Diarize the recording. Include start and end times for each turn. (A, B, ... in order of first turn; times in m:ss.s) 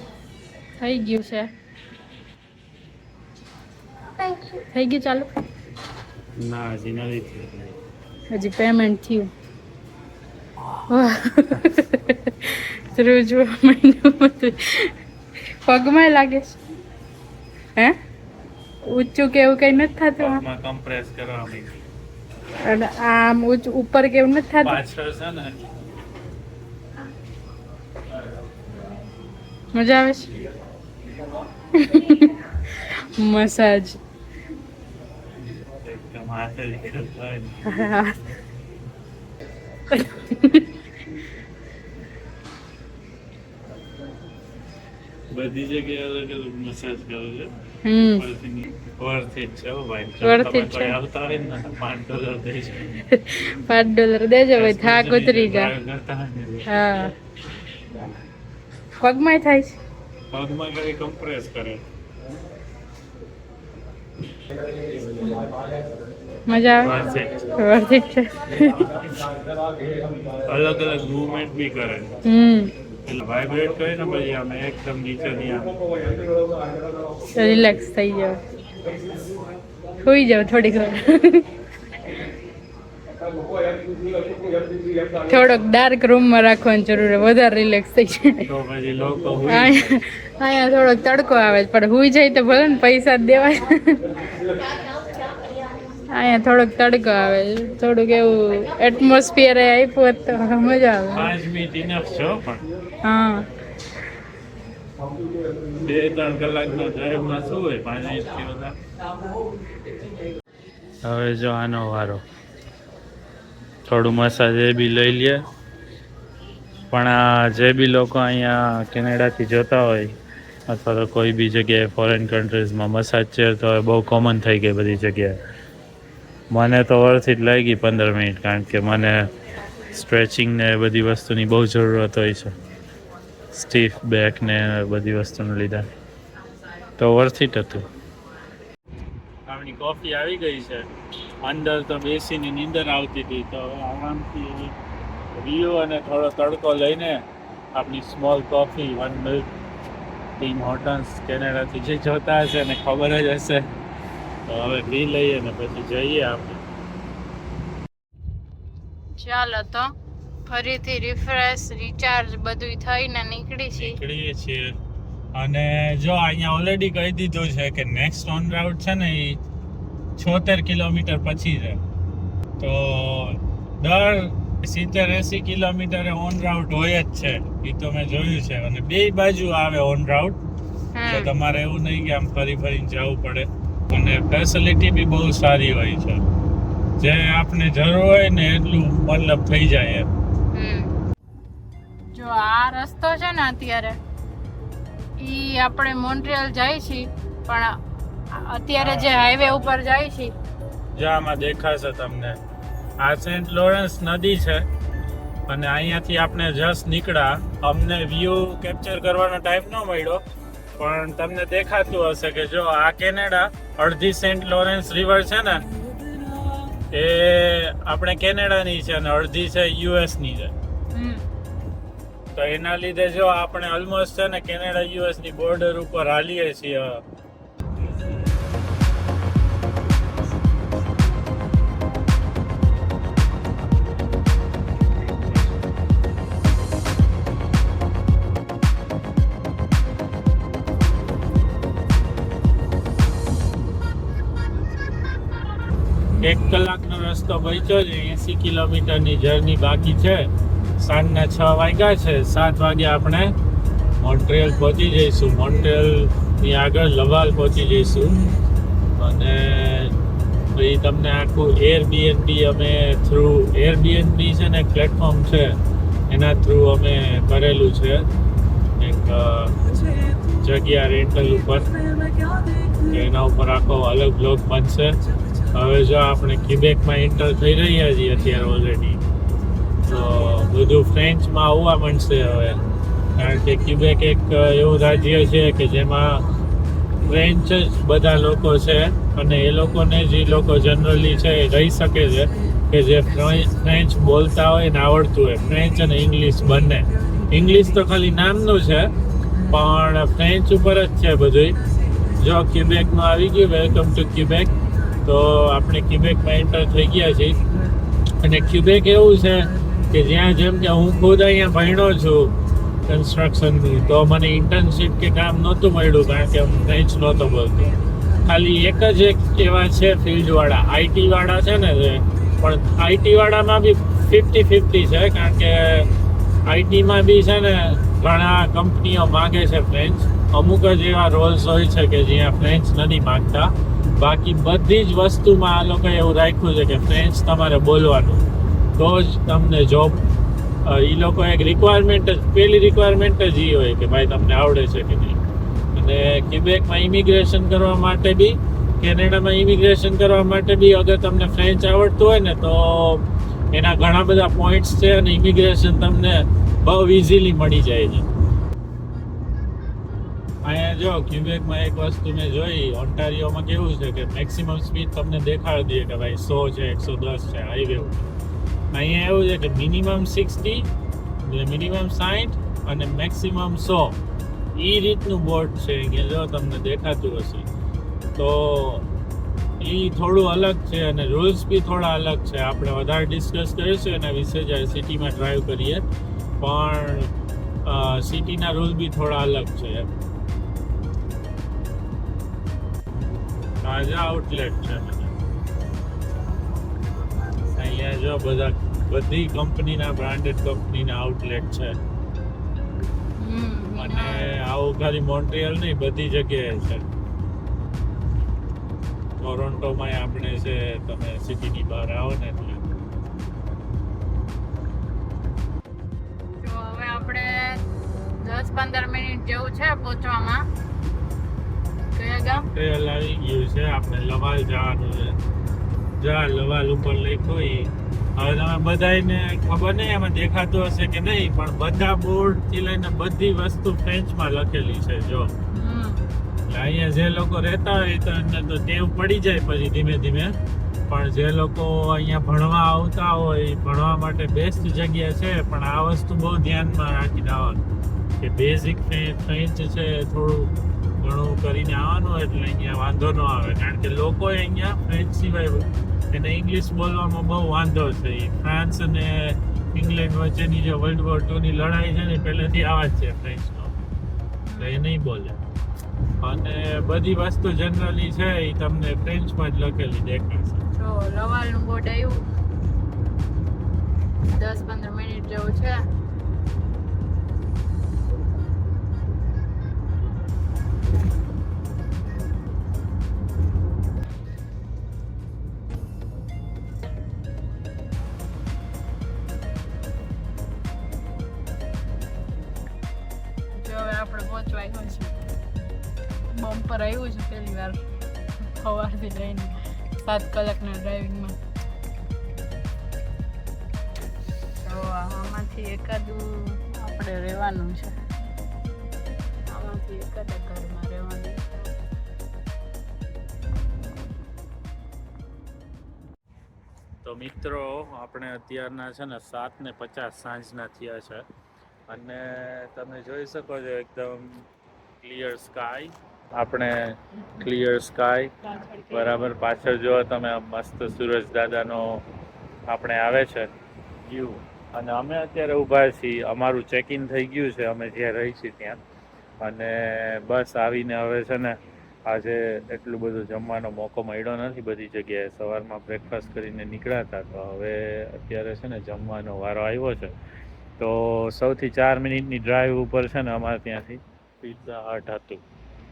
0:00.8-0:01.5 A
0:04.6-0:05.3 A
0:06.4-0:07.7 B
0:08.3-0:09.3 A
0:10.9-0:14.9 A
0:15.6-0:16.6 A
0:18.9-0:20.4 A
0:20.2-0:21.7 B
0:22.6-0:24.8 A
0:24.6-0:25.7 B
0:29.7-0:30.4 A
0:31.7-0:34.0 A
0:35.6-0:37.6 B
0:37.6-0:38.2 A
0:39.9-0:40.7 A
0:45.3-0:47.5 B
0:47.8-0:48.2 A
0:48.2-0:53.0 B
0:50.2-0:51.0 A
0:53.1-0:55.7 A
0:54.5-0:56.7 B
0:56.6-0:57.1 A
0:59.0-0:59.7 A
1:00.3-1:01.8 B
1:06.5-1:08.9 A
1:06.8-1:07.4 B
1:10.5-1:12.1 B
1:12.2-1:12.7 A
1:13.0-1:15.7 B
1:17.3-1:18.4 A
1:20.0-1:21.5 A
1:25.3-1:28.4 A
1:28.4-1:30.0 B
1:29.5-1:34.0 A
1:36.1-1:41.3 A
1:41.1-1:42.6 B
1:43.0-1:43.4 A
1:45.8-1:48.8 B
1:51.0-1:52.2 B
1:53.9-1:55.4 B
1:56.9-2:00.1 B
2:00.7-2:05.4 B
2:06.5-2:09.3 B
2:09.9-2:12.5 B
2:13.5-2:15.8 B
2:17.0-2:17.8 B
2:19.5-2:20.9 B
2:21.4-2:24.7 B
2:25.4-2:27.2 B
2:27.7-2:29.5 B
2:30.4-2:33.6 B
2:34.5-2:36.6 B
2:39.2-2:39.9 A
2:40.4-2:44.0 A
2:43.7-2:44.7 B
2:45.3-2:49.4 B
2:50.2-2:51.8 B
2:52.6-3:00.4 B
3:01.0-3:01.3 A
3:01.1-3:06.2 B
3:07.0-3:10.1 B
3:10.5-3:10.9 A
3:12.1-3:14.0 A
3:15.2-3:17.7 A
3:18.3-3:20.3 A
3:18.8-3:19.8 B
3:21.0-3:22.4 B
3:23.0-3:24.6 B
3:25.5-3:30.2 B
3:30.8-3:35.6 B
3:36.7-3:40.5 B
3:40.9-3:41.2 A
3:42.3-3:47.0 B
4:06.2-4:13.3 B
4:14.0-4:18.2 B
4:19.0-4:19.9 B
4:20.5-4:25.5 B
4:26.1-4:28.0 B
4:28.8-4:29.6 B
4:30.4-4:31.7 B
4:32.8-4:35.0 B
4:35.5-4:39.0 B
4:39.8-4:42.6 B
4:43.2-4:46.2 B
4:47.0-4:58.9 B
4:59.5-5:01.6 B
5:02.2-5:04.5 B
5:05.0-5:07.4 B
5:08.2-5:12.3 B
5:12.9-5:25.9 B
5:26.5-5:38.2 B
5:38.8-5:40.0 B
5:40.6-5:45.2 B
5:45.7-5:58.1 B
6:00.4-6:08.1 B
6:08.7-6:10.6 B
6:11.2-6:14.0 B
6:14.5-6:17.5 B
6:18.2-6:18.9 B
6:19.6-6:25.8 B
6:26.4-6:27.1 B
6:27.6-6:29.9 B
6:33.6-6:35.1 B
6:37.5-6:41.8 B
6:43.2-6:44.4 A
6:43.8-6:46.8 B
6:49.2-6:52.6 B
6:56.4-6:57.6 A
6:58.2-7:00.4 A
7:02.0-7:02.4 A
7:02.3-7:05.2 B
7:06.0-7:15.3 B
7:15.5-7:16.0 A
7:16.5-7:20.3 B
7:20.9-7:27.6 B
7:28.2-7:43.7 B
7:44.5-7:44.8 A
7:44.6-7:45.4 B
7:46.2-7:50.6 B
7:50.8-7:52.2 A
7:54.3-7:55.8 A
8:13.5-8:15.1 A
8:16.3-8:17.8 A
8:18.4-8:21.4 A
8:24.6-8:27.9 A
8:29.5-8:31.7 A
8:37.0-8:41.2 B
8:41.9-8:44.4 B
8:45.0-8:52.0 B
8:52.7-8:53.5 B
8:54.0-8:58.8 B
8:59.4-9:10.1 B
9:10.8-9:15.4 B